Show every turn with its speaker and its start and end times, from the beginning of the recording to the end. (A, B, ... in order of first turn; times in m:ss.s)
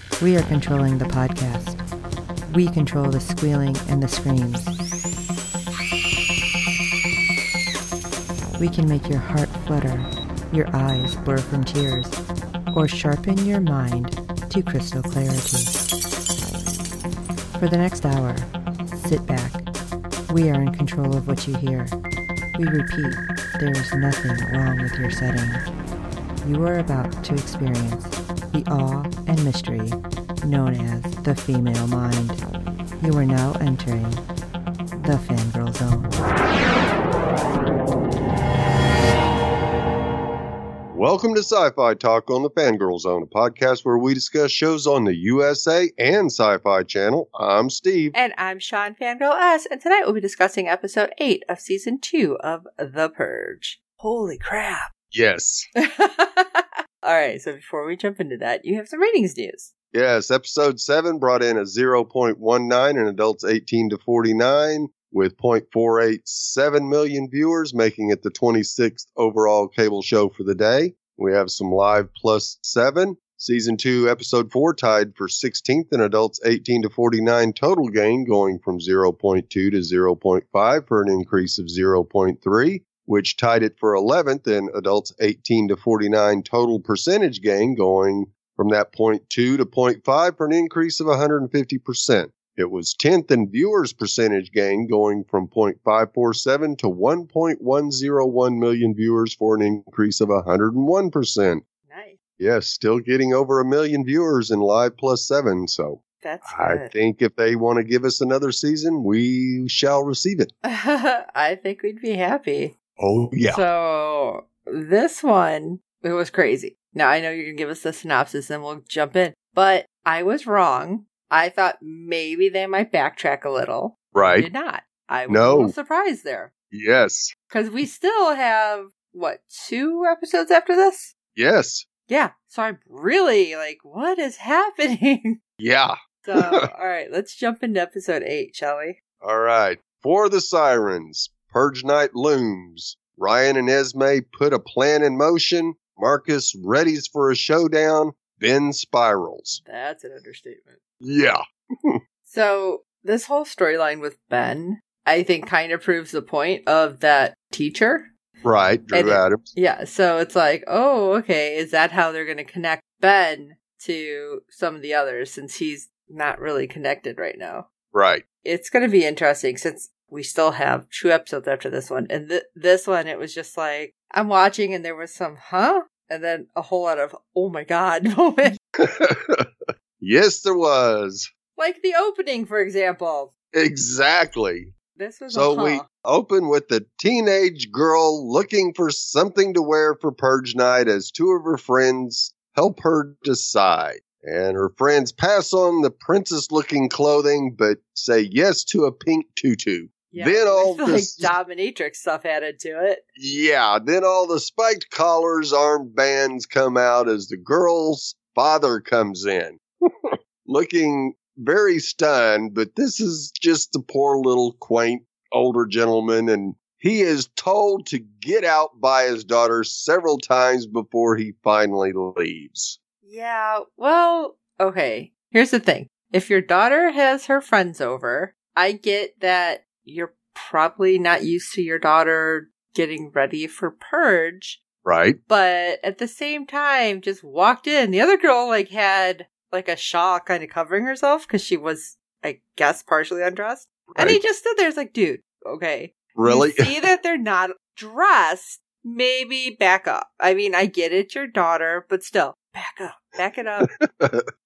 0:00.2-0:01.8 A
0:02.5-0:04.7 A
0:08.6-0:12.2 A
0:12.7-0:15.7 A
0:17.6-0:19.6 A
0:20.3-0:21.9 A
0:22.6-0:25.6 A
0:26.4-0:32.4 A
0:33.0-0:34.2 A
0:35.0-0:36.2 A
0:40.9-0:48.1 B
0:48.1-0:54.9 C
0:55.1-0:55.7 B
0:55.8-0:59.7 C
0:59.9-1:41.6 B
1:41.8-1:42.2 C
1:42.4-1:50.5 B
1:46.2-1:46.9 C
1:50.6-1:52.7 C
1:53.0-1:53.6 B
1:53.5-2:06.5 C
2:04.1-2:04.5 B
2:05.3-2:05.7 B
2:06.7-2:07.3 B
2:07.5-2:11.1 C
2:11.4-2:11.8 B
2:12.1-2:15.4 C
2:15.6-2:16.6 B
2:16.2-2:19.0 C
2:19.2-2:29.6 B
2:29.6-2:30.8 C
2:31.0-2:32.0 B
2:32.2-2:38.1 C
2:38.4-2:39.5 B
2:38.9-2:47.7 C
2:47.9-2:48.2 B
2:48.4-2:58.6 C
2:58.8-2:59.5 B
3:00.0-3:01.3 B
3:01.6-3:03.3 C
3:03.5-3:04.7 B
3:05.0-3:05.8 C
3:05.3-3:21.3 B
3:20.1-3:23.0 C
3:23.2-3:29.6 B
3:30.4-3:42.8 B
3:43.0-3:54.6 C
3:54.8-3:55.2 B
3:55.3-4:13.7 C
4:03.9-4:04.2 B
4:06.2-4:06.7 B
4:14.0-4:14.2 B